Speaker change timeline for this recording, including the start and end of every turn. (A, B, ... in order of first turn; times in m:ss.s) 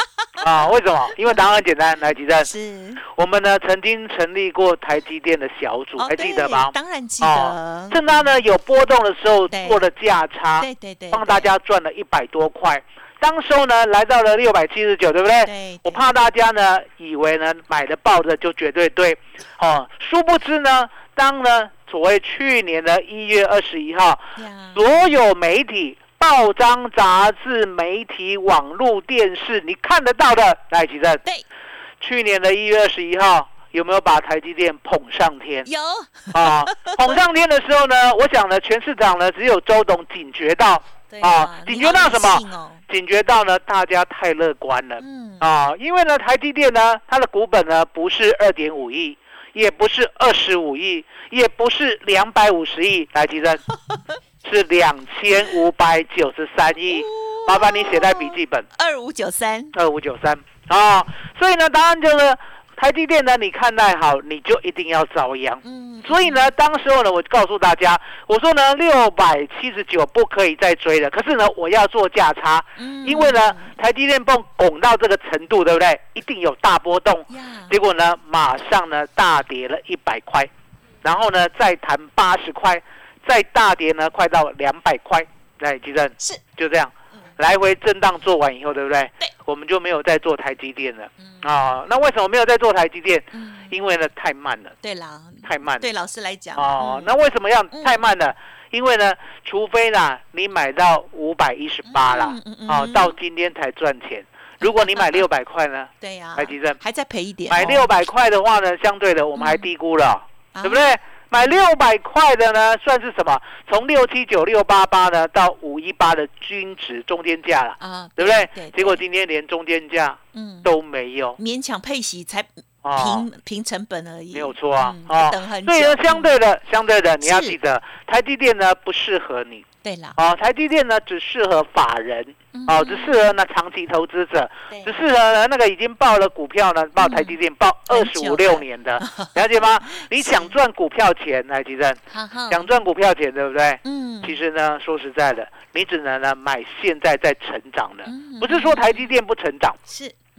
0:00.2-0:00.4 A
0:00.4-0:02.5 B
0:01.2-0:01.6 A
0:02.4-0:03.0 A
0:03.1-0:31.2 B
0:06.0-0:08.4 A
0:09.5-0:09.9 A
0:10.6-0:11.5 A
0:15.4-0:16.0 A
0:24.4-0:25.2 A
0:32.0-0:35.7 B
0:35.6-0:37.2 A
0:36.3-0:53.6 B
0:41.1-0:42.8 A
0:45.0-0:45.5 A
0:54.4-0:58.7 B
0:56.8-0:59.7 A
0:59.7-1:20.5 B
1:05.6-1:06.5 A
1:12.8-1:13.7 A
1:17.3-1:17.8 A
1:21.0-1:34.8 B
1:31.2-1:31.5 A
1:33.3-1:33.7 A
1:34.8-1:37.1 A
1:35.4-1:35.9 B
1:36.6-1:46.8 B
1:37.7-1:38.0 A
1:41.8-1:43.1 A
1:44.6-1:45.2 A
1:46.0-1:47.9 A
1:47.5-2:01.4 B
1:49.4-1:49.7 A
1:50.5-1:51.0 A
1:57.8-1:59.0 A
2:00.3-2:00.7 A
2:01.4-2:06.4 A
2:02.8-2:03.2 B
2:04.3-2:29.8 B
2:07.2-2:07.6 A
2:09.8-2:10.2 A
2:12.5-2:13.2 A
2:14.7-2:15.1 A
2:17.0-2:17.3 A
2:17.9-2:20.6 A
2:22.1-2:22.7 A
2:23.8-2:24.4 A
2:28.0-2:29.1 A
2:29.9-2:30.2 A